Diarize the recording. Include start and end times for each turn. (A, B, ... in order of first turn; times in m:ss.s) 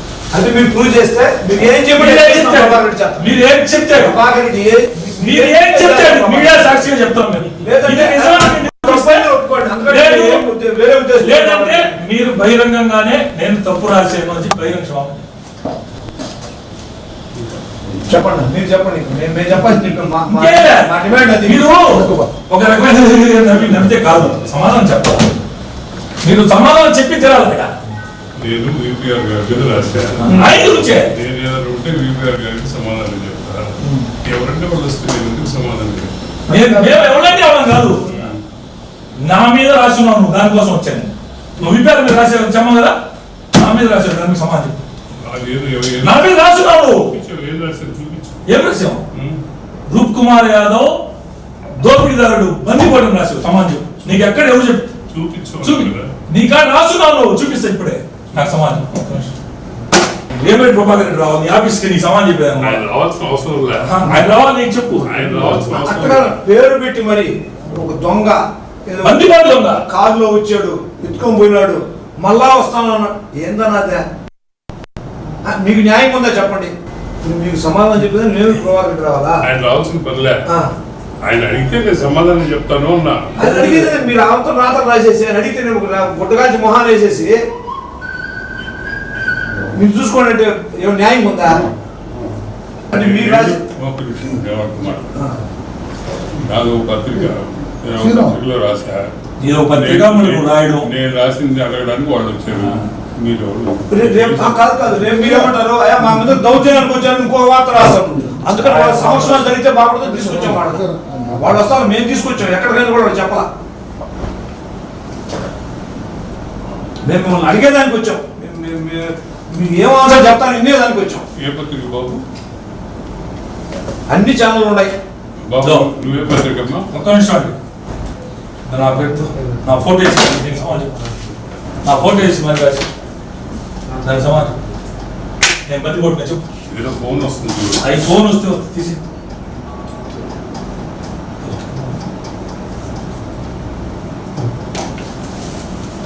0:00.3-0:03.2 A
0:02.0-0:04.2 B
0:04.0-0:06.8 A
0:05.2-0:09.3 B
0:07.6-0:11.9 A
0:09.8-0:10.4 B
0:11.2-0:15.2 B
0:18.1-0:22.3 A
0:20.3-0:20.9 B
0:21.4-0:25.3 B
0:26.2-0:27.7 B
0:28.4-0:30.4 C
0:30.2-0:31.1 B
0:31.1-0:36.1 C
0:36.5-0:36.9 A
0:36.5-0:38.0 B
0:38.1-0:38.4 C
0:39.2-0:42.9 B
0:43.5-0:44.8 B
0:45.2-0:48.4 C
0:46.0-0:47.1 B
0:48.4-0:49.0 B
0:49.1-0:49.4 C
0:49.9-0:51.0 B
0:51.7-0:54.9 B
0:55.1-0:56.1 C
0:55.6-0:59.3 B
1:00.4-1:02.8 B
1:02.6-1:04.0 C
1:03.8-1:05.1 B
1:05.0-1:06.4 C
1:05.5-1:14.0 A
1:09.0-1:09.8 B
1:15.4-1:19.4 A
1:19.4-1:20.4 C
1:21.2-1:23.3 C
1:23.4-1:23.9 B
1:23.4-1:27.4 A
1:29.7-1:31.6 A
1:32.9-1:33.6 A
1:32.9-1:35.2 C
1:36.4-1:39.1 C
1:39.4-1:40.9 B
1:39.7-1:44.6 C
1:42.5-1:42.8 B
1:43.9-1:53.5 A
1:48.6-1:49.5 B
1:57.0-2:01.2 A
2:01.4-2:02.2 C
2:04.1-2:04.9 A
2:05.4-2:06.9 C
2:05.6-2:05.9 B
2:06.9-2:07.5 B
2:08.7-2:10.9 B
2:11.8-2:12.9 B
2:14.0-2:14.5 B
2:15.7-2:16.4 B
2:16.7-2:17.9 C
2:17.8-2:19.0 B